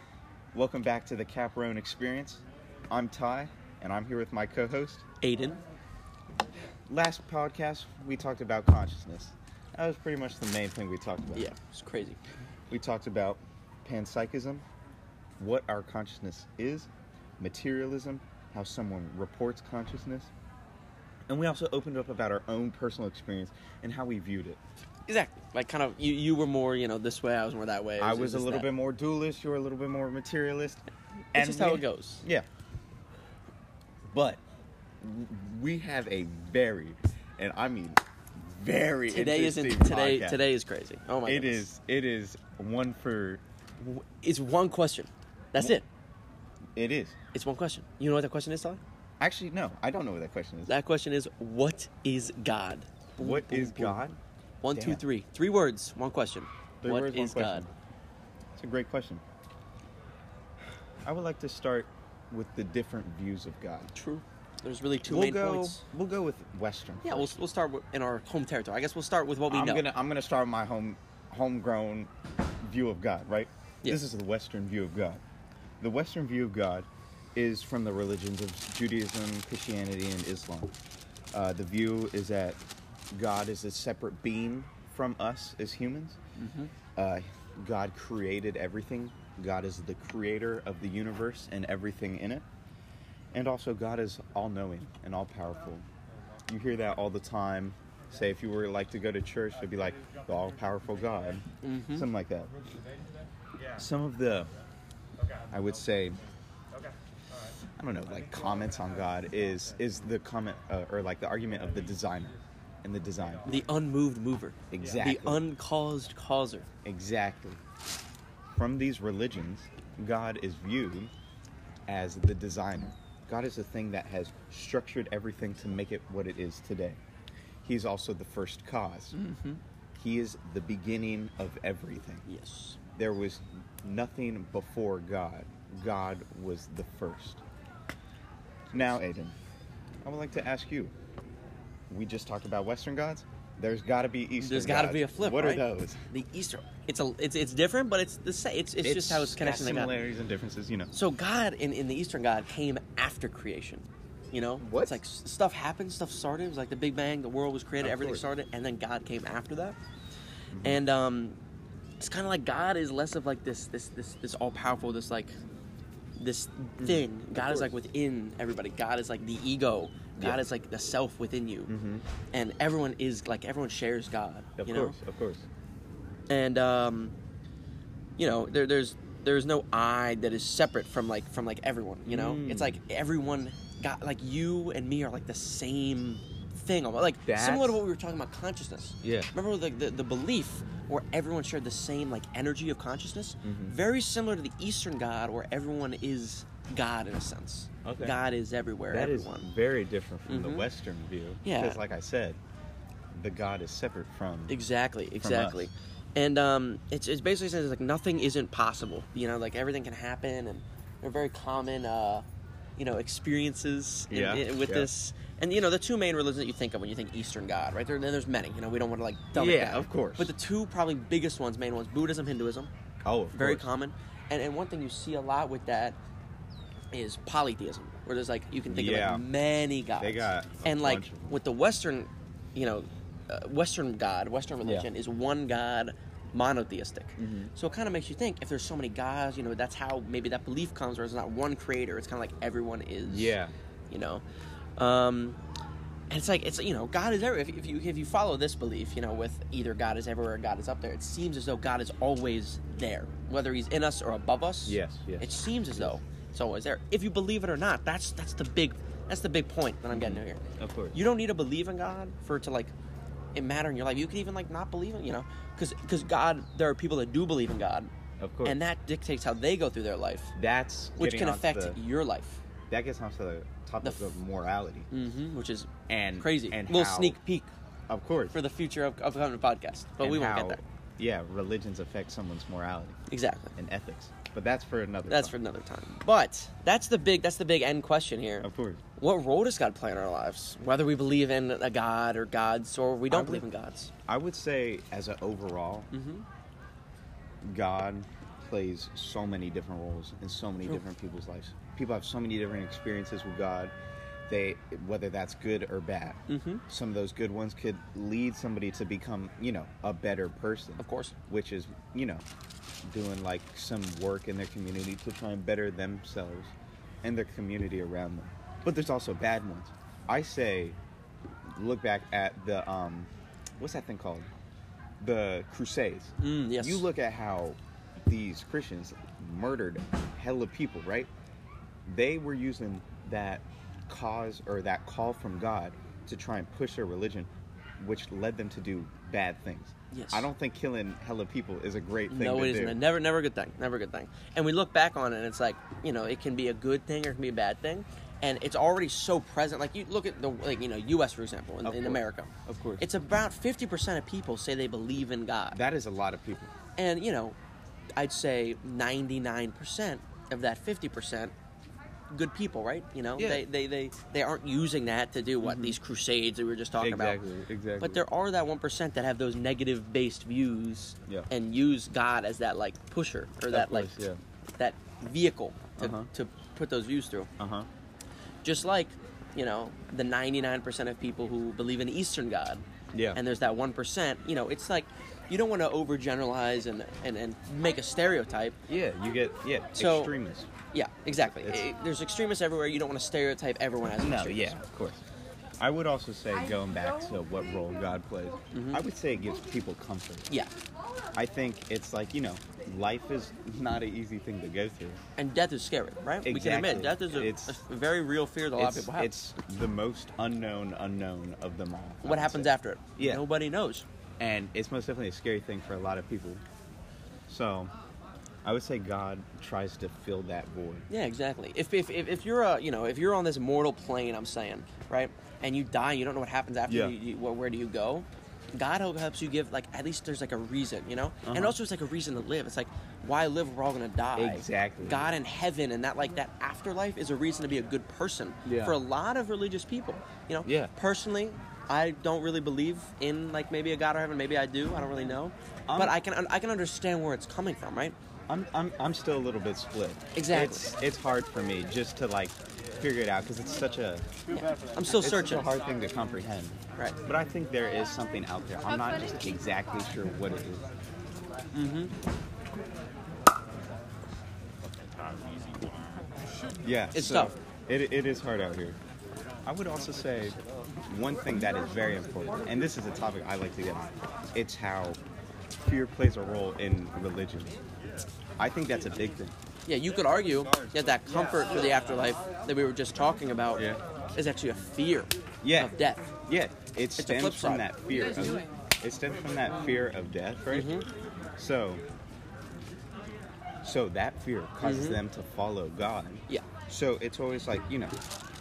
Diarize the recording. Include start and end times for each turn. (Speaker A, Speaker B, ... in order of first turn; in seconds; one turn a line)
Speaker A: 0.5-5.0
Speaker B: 5.2-5.6
Speaker A: 6.9-11.5
Speaker B: 11.3-12.2
Speaker A: 12.7-14.6
Speaker A: 15.4-16.9
Speaker A: 17.4-20.3
Speaker A: 21.3-24.6
Speaker B: 25.1-28.7
Speaker A: 28.0-32.5
Speaker B: 31.3-32.2
Speaker A: 34.1-34.4
Speaker A: 35.0-40.4
Speaker B: 39.1-41.7
Speaker A: 41.2-43.4
Speaker B: 43.8-45.8
Speaker A: 46.8-47.1
Speaker B: 47.3-48.8
Speaker A: 49.2-50.7
Speaker B: 50.7-54.0
Speaker A: 53.2-54.2
Speaker B: 54.6-57.7
Speaker A: 54.7-55.0
Speaker A: 56.8-57.7
Speaker A: 58.6-59.2
Speaker A: 61.0-63.9
Speaker B: 63.9-65.8
Speaker A: 65.0-67.3
Speaker B: 67.0-69.9
Speaker A: 69.5-72.1
Speaker A: 72.6-75.2
Speaker A: 75.8-80.7
Speaker A: 81.3-82.6
Speaker A: 83.1-86.2
Speaker B: 86.4-86.7
Speaker A: 87.0-92.4
Speaker A: 93.3-95.8
Speaker A: 96.5-101.4
Speaker B: 101.6-102.1
Speaker A: 101.9-102.5
Speaker A: 103.7-104.5
Speaker A: 105.5-106.2
Speaker A: 107.8-113.5
Speaker B: 113.4-116.7
Speaker A: 114.7-115.5
Speaker A: 116.8-117.6
Speaker A: 118.5-121.1
Speaker A: 121.9-127.0
Speaker A: 127.6-129.2
Speaker B: 129.1-129.6
Speaker A: 130.0-132.2
Speaker B: 132.2-132.8
Speaker A: 133.0-137.4
Speaker A: 138.7-139.3
Speaker A: 140.0-140.9
Speaker A: 141.9-146.0
Speaker B: 144.4-150.0
Speaker A: 148.8-150.9
Speaker B: 150.9-159.8
Speaker A: 154.6-155.0
Speaker A: 157.8-158.3
Speaker A: 160.5-160.8
Speaker B: 160.6-161.4
Speaker B: 162.0-165.3
Speaker B: 166.2-171.7
Speaker A: 166.8-167.8
Speaker A: 170.2-170.4
Speaker A: 171.7-172.1
Speaker B: 172.3-175.0
Speaker A: 174.6-175.5
Speaker B: 176.3-177.2
Speaker B: 178.2-199.5
Speaker A: 182.1-182.8
Speaker A: 187.2-187.8
Speaker A: 189.0-189.3
Speaker A: 193.4-193.8
Speaker A: 197.8-198.2
Speaker A: 198.9-202.4
Speaker B: 200.3-200.7
Speaker B: 201.4-201.8
Speaker A: 203.1-204.6
Speaker B: 204.5-212.2
Speaker A: 205.2-205.7
Speaker B: 212.8-222.7
Speaker A: 214.1-214.9
Speaker A: 219.3-220.3
Speaker A: 223.1-223.7
Speaker B: 223.3-226.0
Speaker B: 226.9-243.4
Speaker A: 228.7-229.2
Speaker A: 230.0-231.4
Speaker A: 234.6-234.9
Speaker A: 237.2-237.5
Speaker A: 243.1-243.5
Speaker B: 243.9-244.2
Speaker B: 244.8-245.4
Speaker B: 246.1-260.4
Speaker A: 254.7-256.0
Speaker A: 259.9-261.0
Speaker B: 260.9-262.7
Speaker B: 263.3-267.9
Speaker A: 268.2-268.6
Speaker B: 268.4-270.3
Speaker A: 270.4-271.8
Speaker B: 271.0-272.4
Speaker A: 272.7-274.9
Speaker B: 273.8-274.1
Speaker B: 274.9-277.5
Speaker A: 275.9-277.2
Speaker A: 277.9-278.4
Speaker B: 278.3-280.6
Speaker A: 280.0-283.0
Speaker B: 283.1-283.6
Speaker A: 283.6-285.4
Speaker B: 285.1-293.9
Speaker A: 288.4-288.8
Speaker A: 293.1-293.4
Speaker A: 294.1-295.9
Speaker B: 295.9-296.2
Speaker A: 297.4-303.7
Speaker A: 304.3-312.2
Speaker B: 306.3-306.6
Speaker B: 310.8-311.1
Speaker A: 312.9-320.8
Speaker A: 321.5-324.3
Speaker A: 325.0-331.1
Speaker B: 326.2-326.8
Speaker A: 331.9-342.8
Speaker B: 339.9-340.3
Speaker B: 342.1-355.6
Speaker A: 351.6-352.8
Speaker A: 355.5-356.5
Speaker B: 356.8-357.4
Speaker B: 358.0-361.3
Speaker B: 362.1-367.2
Speaker A: 363.2-363.4
Speaker A: 365.4-365.8
Speaker A: 366.8-368.0
Speaker B: 367.8-373.9
Speaker A: 373.5-374.2
Speaker B: 374.6-377.3
Speaker A: 375.8-376.1
Speaker A: 377.4-377.7
Speaker B: 378.4-388.6
Speaker A: 382.9-383.2
Speaker A: 388.7-390.5
Speaker B: 389.7-390.1
Speaker B: 390.7-394.6
Speaker A: 391.2-391.7
Speaker A: 394.0-395.0
Speaker A: 395.6-400.3
Speaker B: 398.5-398.8
Speaker A: 401.1-405.0
Speaker B: 405.2-409.1
Speaker A: 406.2-407.6
Speaker A: 408.6-413.2
Speaker B: 412.0-413.9
Speaker A: 414.2-416.4
Speaker A: 417.3-417.7
Speaker A: 418.4-420.9
Speaker B: 420.9-447.9
Speaker A: 426.7-426.9
Speaker A: 431.2-431.6
Speaker A: 434.1-435.0
Speaker A: 438.4-438.8
Speaker A: 440.4-440.7
Speaker A: 445.7-445.9
Speaker A: 448.3-454.2
Speaker B: 450.1-450.7
Speaker B: 454.3-455.5
Speaker A: 454.9-460.7
Speaker B: 461.5-461.9
Speaker A: 466.6-468.8
Speaker B: 466.9-467.3
Speaker A: 469.4-475.0
Speaker A: 475.6-477.6
Speaker A: 478.4-479.3
Speaker B: 479.7-486.1
Speaker A: 483.6-483.8
Speaker A: 485.4-485.7
Speaker A: 486.3-490.8
Speaker B: 487.0-487.7
Speaker B: 490.5-490.9
Speaker A: 491.4-491.8
Speaker A: 493.6-497.9
Speaker B: 494.6-495.0